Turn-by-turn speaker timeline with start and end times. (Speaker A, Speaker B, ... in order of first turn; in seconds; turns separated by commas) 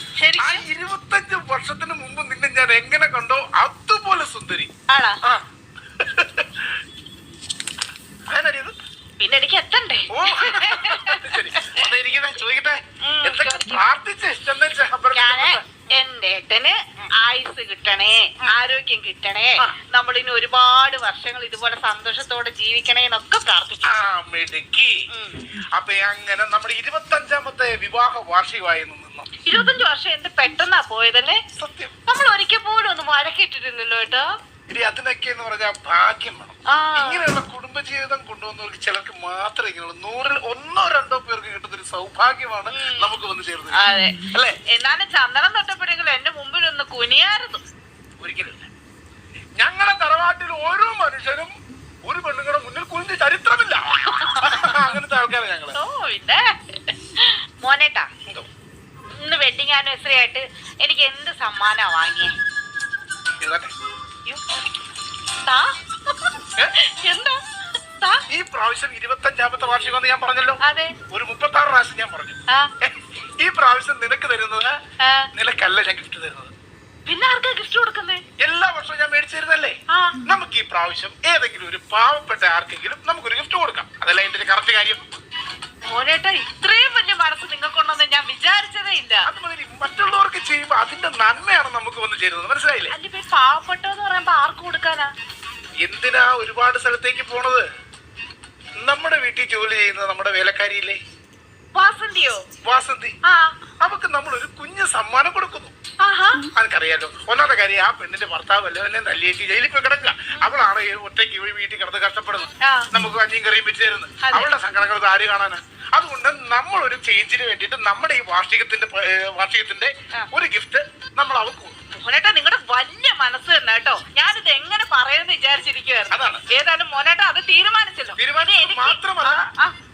Speaker A: 0.2-0.6, Speaker B: 0.4-4.7, Speaker A: 4.9-5.2, Speaker B: 6.0-6.7, Speaker B: 8.3-8.7, Speaker A: 9.2-11.8, Speaker B: 10.1-15.7, Speaker A: 13.0-13.8, Speaker A: 15.1-24.0, Speaker B: 23.8-25.0, Speaker A: 25.1-25.4, Speaker B: 25.7-29.3, Speaker A: 29.4-31.4, Speaker B: 31.6-31.9, Speaker A: 32.0-34.3, Speaker B: 34.7-43.8, Speaker A: 36.7-37.3, Speaker A: 42.7-43.1, Speaker A: 43.7-47.6, Speaker B: 48.2-48.7, Speaker B: 49.6-51.5, Speaker B: 52.0-55.8, Speaker A: 54.2-54.7, Speaker A: 55.7-58.1, Speaker A: 59.2-62.3, Speaker B: 63.4-63.7, Speaker A: 65.4-67.4, Speaker B: 68.3-74.8, Speaker A: 70.6-70.9, Speaker A: 75.0-75.3, Speaker B: 75.3-76.5, Speaker A: 77.0-78.2, Speaker B: 78.4-85.0, Speaker A: 85.8-89.3, Speaker B: 89.2-92.9, Speaker A: 92.9-95.1, Speaker B: 95.8-97.6, Speaker B: 98.8-101.0, Speaker A: 101.7-102.4, Speaker B: 102.6-103.2, Speaker A: 103.2-103.5, Speaker B: 103.8-105.7, Speaker A: 106.0-106.4, Speaker B: 106.4-121.7, Speaker A: 112.6-112.9, Speaker A: 114.2-114.5, Speaker A: 121.9-129.7, Speaker B: 126.1-126.4, Speaker B: 128.2-129.4